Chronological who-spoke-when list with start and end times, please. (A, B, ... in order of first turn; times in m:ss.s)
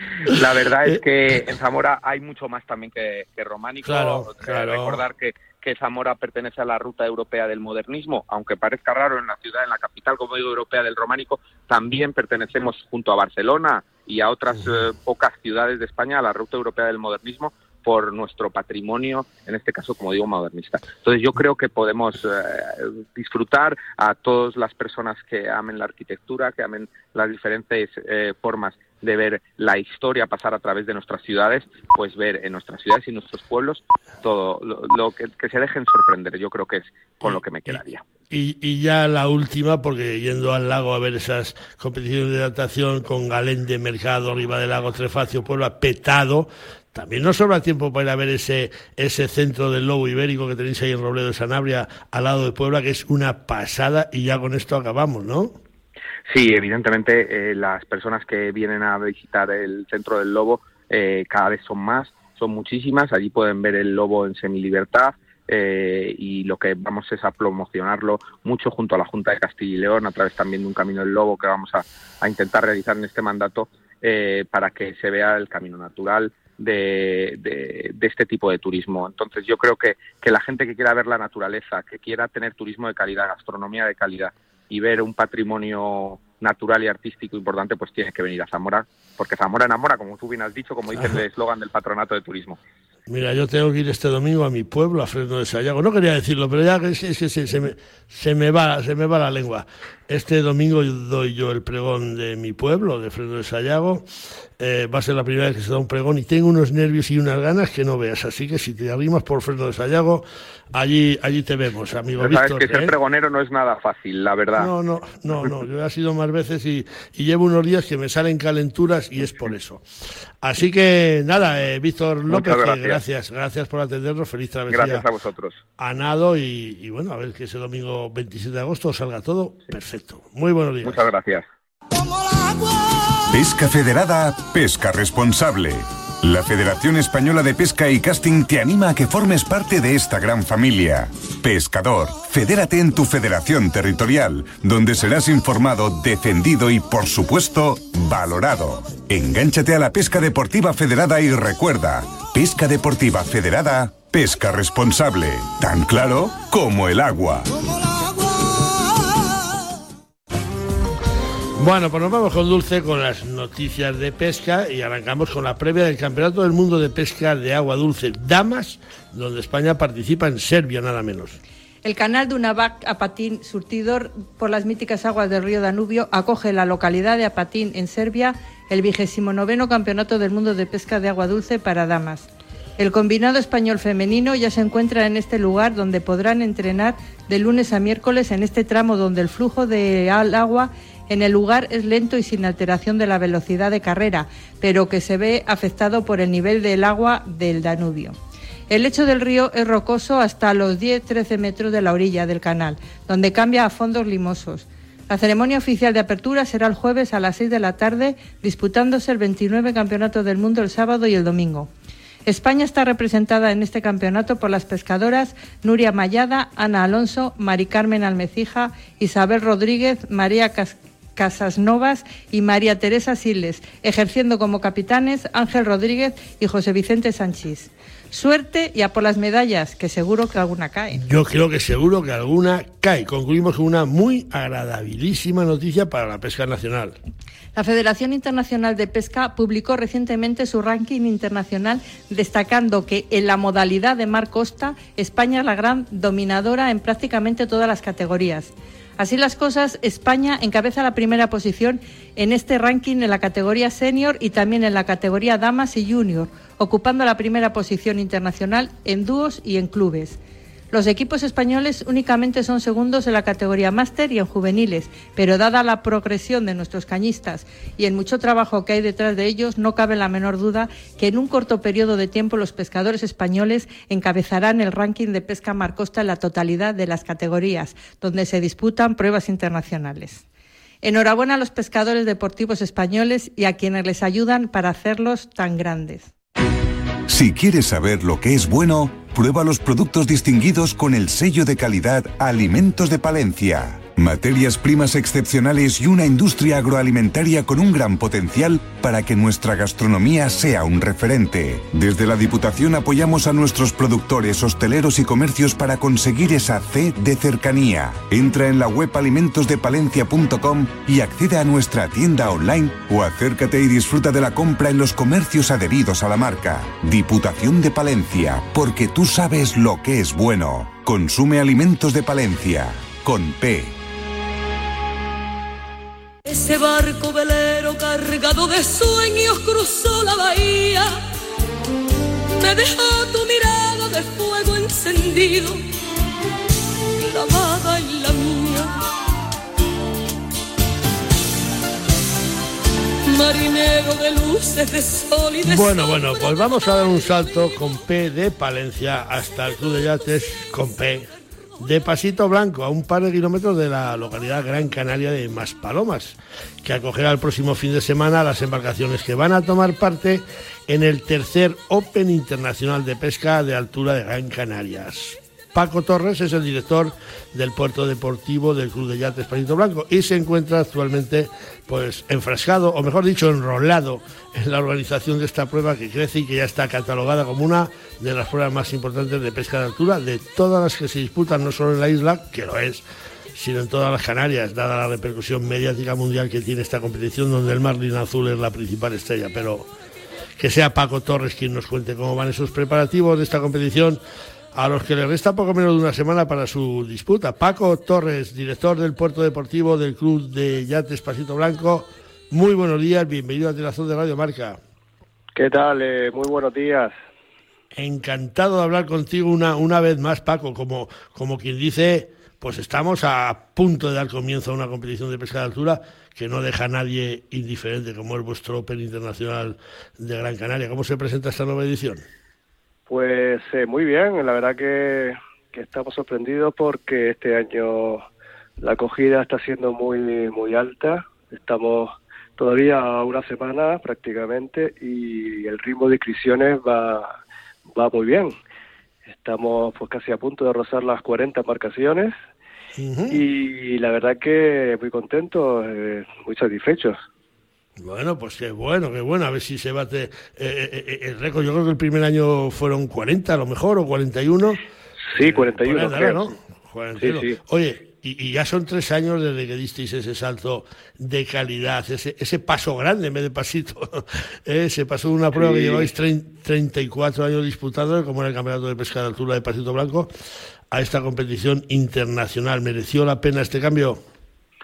0:00.2-0:38.0 A
0:03.8-0:05.0 B
0:37.3-0:37.8 B
0:38.3-0:55.6 B
0:56.3-1:32.6 A
1:33.1-1:44.1 B
1:44.6-1:52.9 B
1:52.2-1:54.7 A
1:54.6-1:59.8 B
2:00.4-2:05.0 B
2:02.3-2:03.0 A
2:04.7-2:05.6 A
2:05.8-2:11.1 B
2:10.8-2:11.4 A
2:13.3-2:37.6 C
2:41.6-2:51.4 B
2:51.8-3:18.1 D
3:18.7-3:31.7 D
3:32.3-3:51.0 D
3:51.0-3:57.0 B
3:57.6-4:20.2 D
4:20.7-4:40.2 D
4:40.8-4:46.1 D
4:47.1-5:23.7 C
5:26.2-5:31.0 E
5:32.4-5:35.6 E
5:37.0-5:38.8 E
5:43.1-5:45.9 E
5:45.4-6:29.7 B
6:30.4-6:34.0 B
6:34.5-6:44.6 B
6:45.4-6:46.9 F
6:47.7-7:02.0 B
7:02.9-7:08.0 F
7:08.6-7:17.2 F
7:17.7-7:18.3 F
7:19.1-7:22.1 F
7:22.8-7:23.2 B
7:23.1-7:27.0 F
7:27.8-7:34.6 B
7:35.1-7:36.3 F
7:35.2-7:50.1 B
7:37.0-7:37.4 F
7:45.3-7:45.9 F
7:50.7-7:54.0 B